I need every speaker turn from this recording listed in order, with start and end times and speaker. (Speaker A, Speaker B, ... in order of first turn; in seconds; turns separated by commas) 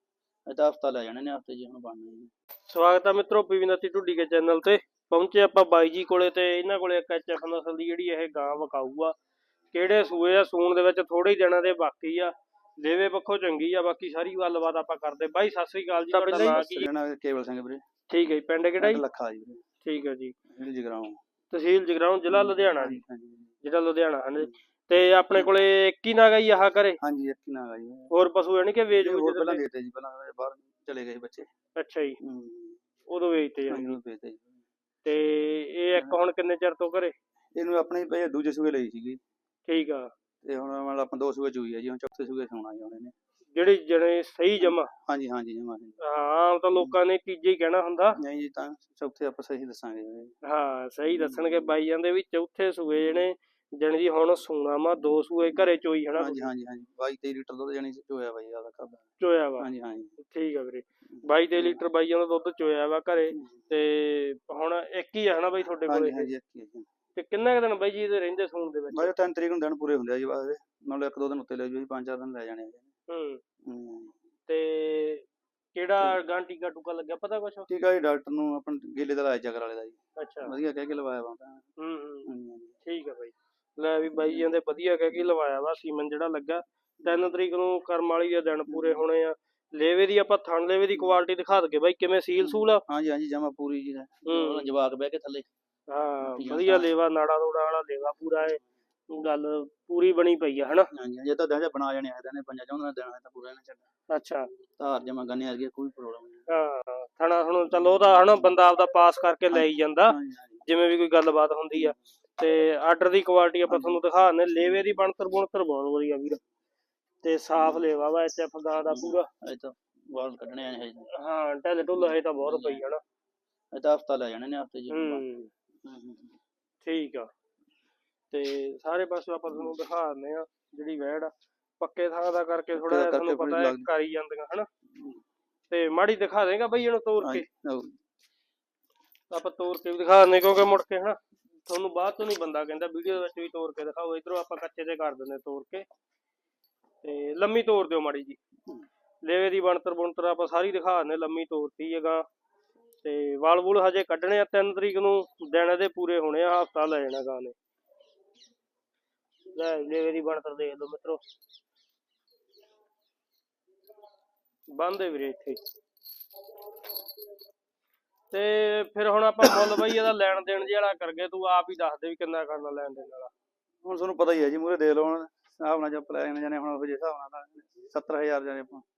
Speaker A: 0.5-2.3, Speaker B: 2.7-9.1, Speaker B: 9.7-16.9, Speaker A: 16.1-17.8, Speaker B: 18.1-19.0, Speaker A: 18.8-19.6, Speaker B: 19.8-20.3, Speaker A: 20.5-21.2, Speaker B: 21.5-23.0, Speaker A: 22.3-23.5, Speaker B: 23.6-27.0, Speaker A: 27.0-28.1, Speaker B: 28.1-29.6, Speaker A: 28.9-31.5, Speaker B: 31.8-32.2, Speaker A: 32.2-32.8, Speaker B: 33.1-34.0, Speaker A: 33.7-34.6, Speaker B: 35.0-37.1, Speaker A: 37.5-39.2, Speaker B: 39.7-40.1, Speaker A: 40.4-43.1, Speaker B: 43.5-44.9, Speaker A: 44.6-46.0, Speaker B: 46.0-48.2, Speaker A: 48.2-50.3, Speaker B: 50.5-56.4, Speaker A: 51.1-51.7, Speaker A: 53.0-53.3, Speaker A: 56.1-59.1, Speaker B: 59.2-59.7, Speaker A: 59.6-60.1, Speaker B: 60.2-66.3, Speaker A: 61.1-61.8, Speaker A: 63.3-63.6, Speaker A: 65.8-66.8, Speaker B: 67.1-69.1, Speaker A: 68.9-72.9, Speaker B: 73.1-73.4, Speaker A: 73.6-74.2, Speaker B: 74.5-77.7, Speaker A: 77.7-81.6, Speaker B: 80.2-80.5, Speaker B: 81.8-82.3, Speaker A: 82.2-82.8, Speaker B: 82.8-92.8, Speaker A: 84.1-84.5, Speaker A: 88.7-89.0, Speaker A: 92.4-95.5, Speaker B: 94.3-94.7, Speaker B: 95.9-100.9, Speaker A: 96.2-96.9, Speaker A: 100.9-103.8, Speaker B: 104.1-104.5, Speaker A: 104.8-106.5, Speaker B: 106.5-116.4, Speaker A: 109.5-110.6, Speaker A: 113.7-114.0, Speaker B: 117.2-119.3, Speaker A: 117.5-117.9, Speaker A: 118.8-121.1, Speaker B: 121.1-123.0, Speaker A: 122.0-122.9, Speaker A: 123.7-125.2, Speaker B: 124.9-125.5, Speaker A: 125.8-126.4, Speaker B: 126.8-127.3, Speaker B: 128.3-134.7, Speaker A: 129.5-129.8, Speaker A: 132.7-133.9, Speaker A: 134.9-135.2, Speaker B: 135.7-137.4, Speaker A: 137.2-137.9, Speaker B: 139.3-145.8, Speaker B: 147.0-148.4, Speaker B: 149.2-152.2, Speaker B: 153.0-157.5, Speaker B: 159.5-161.2, Speaker B: 164.7-165.6, Speaker B: 168.3-173.3, Speaker A: 169.4-170.1, Speaker A: 173.8-178.8